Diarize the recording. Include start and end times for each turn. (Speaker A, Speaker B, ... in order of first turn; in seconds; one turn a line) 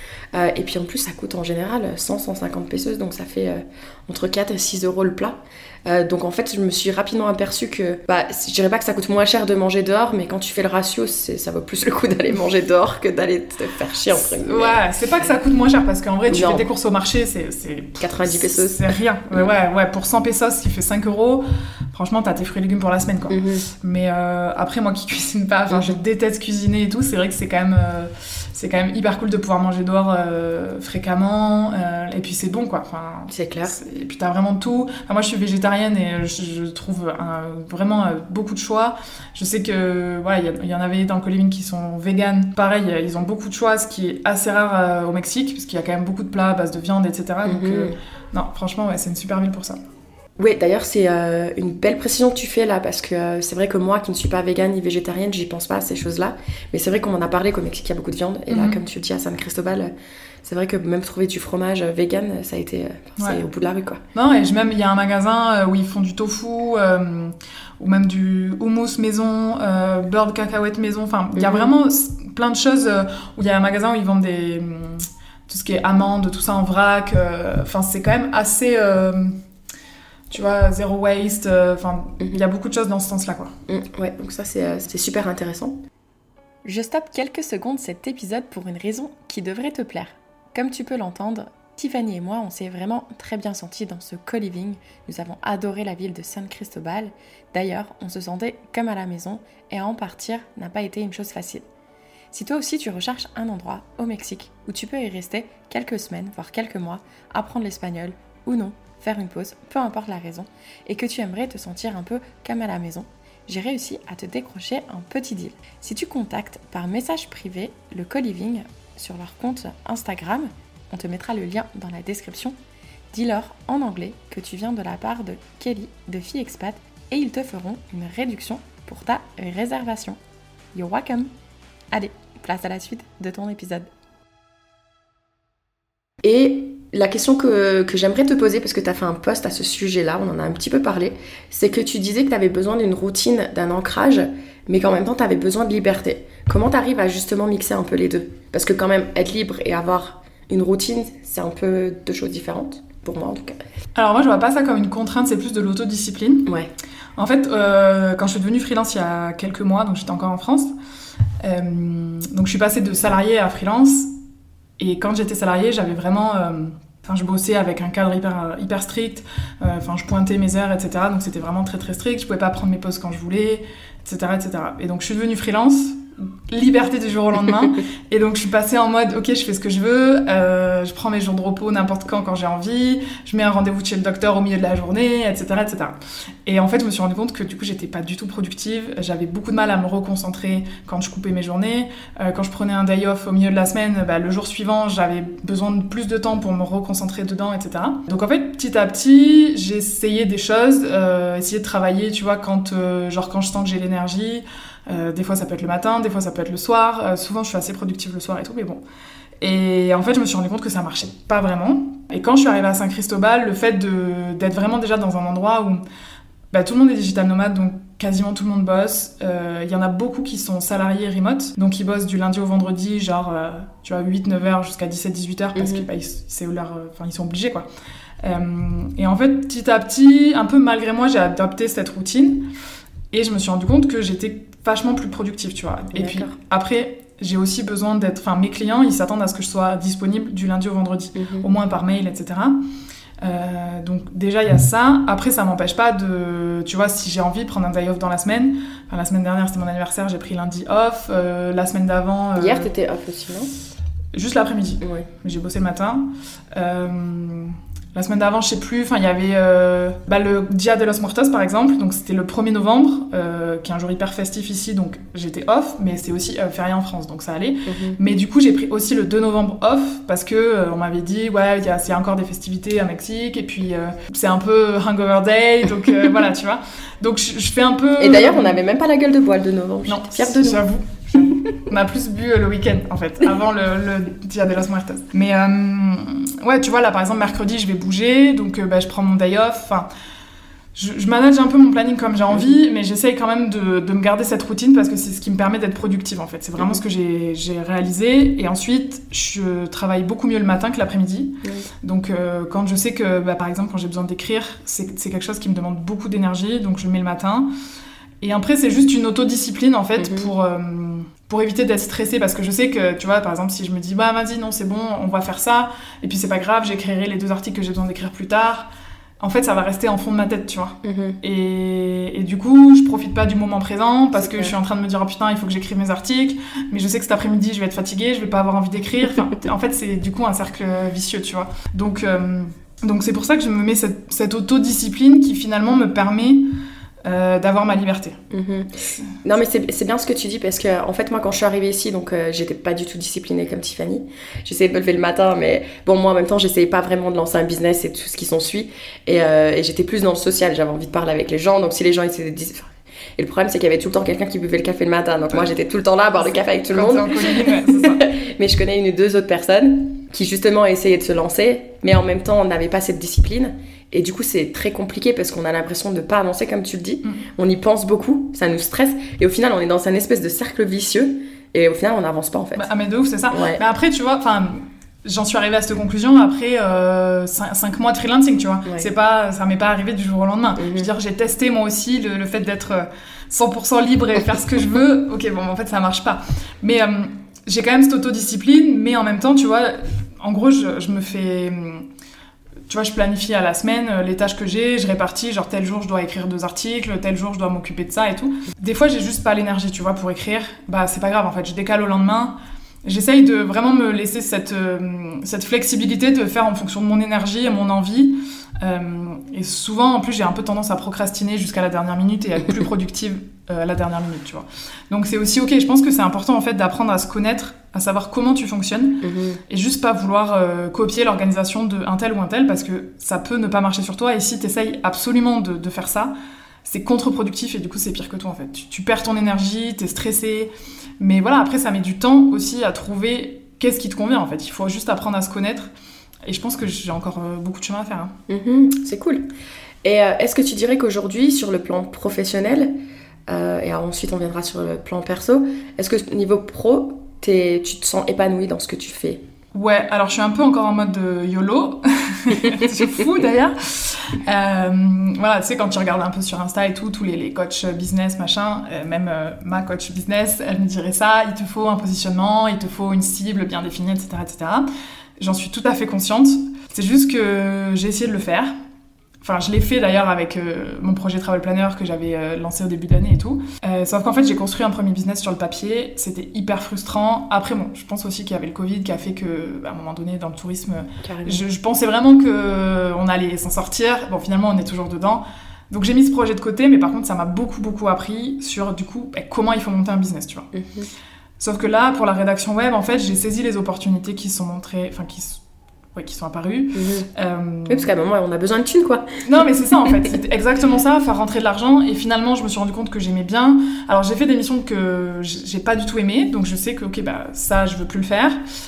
Speaker A: 0.3-14.8
Speaker B: 14.1-49.8
Speaker A: 16.3-16.7
Speaker A: 18.0-19.4
Speaker A: 23.3-23.7
Speaker A: 33.3-33.8
Speaker A: 47.4-48.0
Speaker A: 50.4-59.9
Speaker B: 58.5-58.8
Speaker A: 60.4-64.0
Speaker B: 64.2-79.4
Speaker A: 71.3-71.7
Speaker B: 80.3-83.5
Speaker A: 83.7-85.8
Speaker A: 86.7-101.7
Speaker A: 102.3-122.6
Speaker A: 123.1-130.2
Speaker A: 130.7-131.3
Speaker A: 131.9-133.9
Speaker A: 136.2-153.6
Speaker B: 153.9-156.5
Speaker B: 157.2-160.7
Speaker B: 161.4-164.1
Speaker B: 164.8-208.8
Speaker B: 209.4-215.8
Speaker B: 216.5-227.7
Speaker A: 225.6-225.9
Speaker B: 228.2-232.5
Speaker B: 233.1-242.6
Speaker A: 235.9-236.4
Speaker A: 241.2-241.5
Speaker B: 243.2-252.7
Speaker A: 252.4-253.5
Speaker B: 254.1-278.6
Speaker A: 254.8-255.1
Speaker A: 267.7-268.0
Speaker A: 278.0-280.6
Speaker B: 279.9-289.9
Speaker B: 290.8-307.5
Speaker A: 301.4-301.7
Speaker B: 308.2-318.7
Speaker A: 310.0-310.3
Speaker B: 319.2-336.5
Speaker A: 320.8-321.2
Speaker A: 324.2-324.5
Speaker B: 337.1-338.2
Speaker A: 338.3-372.7
Speaker B: 356.2-358.1
Speaker B: 372.6-391.9
Speaker A: 373.3-373.6
Speaker A: 380.6-380.9
Speaker B: 392.7-426.1
Speaker A: 419.0-419.4
Speaker B: 426.6-435.7
Speaker B: 436.2-438.1
Speaker A: 438.3-439.3
Speaker A: 439.8-442.7
Speaker A: 443.3-449.2
Speaker B: 449.5-464.7
Speaker B: 465.2-468.5
Speaker B: 469.2-490.5
Speaker A: 481.0-481.4
Speaker A: 490.5-490.9
Speaker B: 491.4-495.4
Speaker B: 495.9-497.9
Speaker A: 496.7-497.1
Speaker A: 497.7-499.2
Speaker B: 499.2-508.4